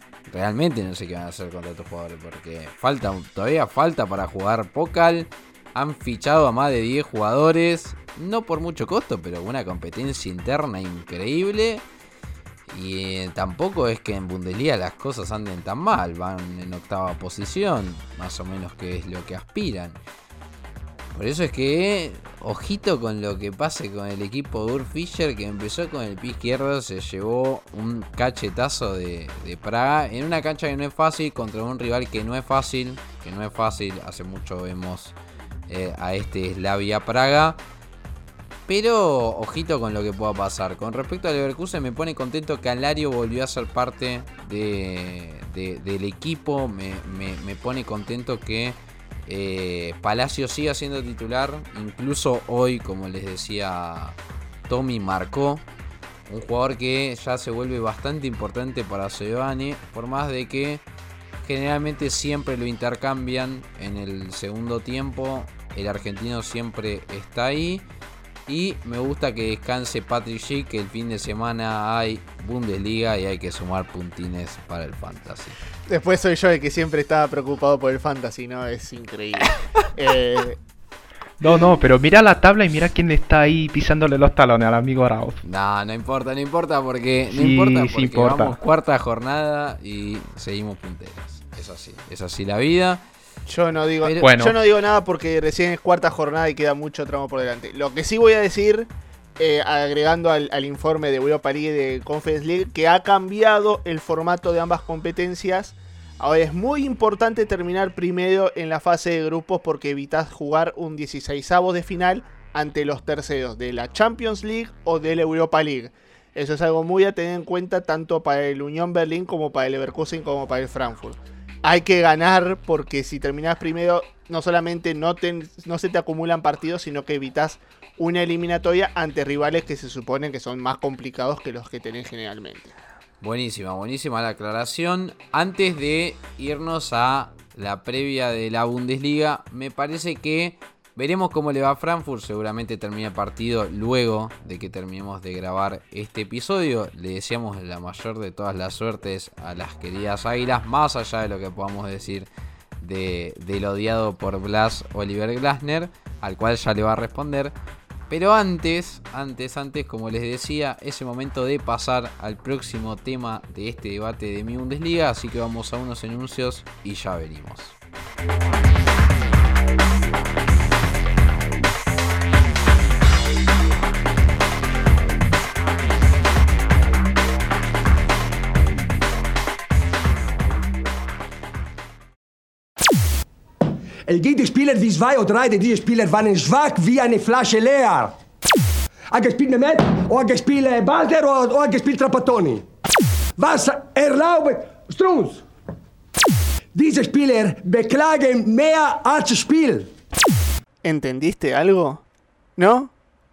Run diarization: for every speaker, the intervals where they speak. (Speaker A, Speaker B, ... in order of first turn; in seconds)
Speaker A: 0.3-11.8, 12.7-20.0, 21.1-35.2, 35.7-37.6, 38.7-55.6, 56.3-60.8, 61.4-67.9, 68.5-75.6, 85.4-93.0, 94.0-94.4, 133.2-152.3, 152.8-157.6, 158.1-167.8
Speaker B: 75.9-80.6, 93.5-132.8, 200.8-202.0, 202.6-202.9
Speaker C: 81.4-85.4, 87.3-88.6, 94.2-94.6
Speaker D: 184.1-188.2, 189.1-192.7, 193.4-195.4, 196.8-199.9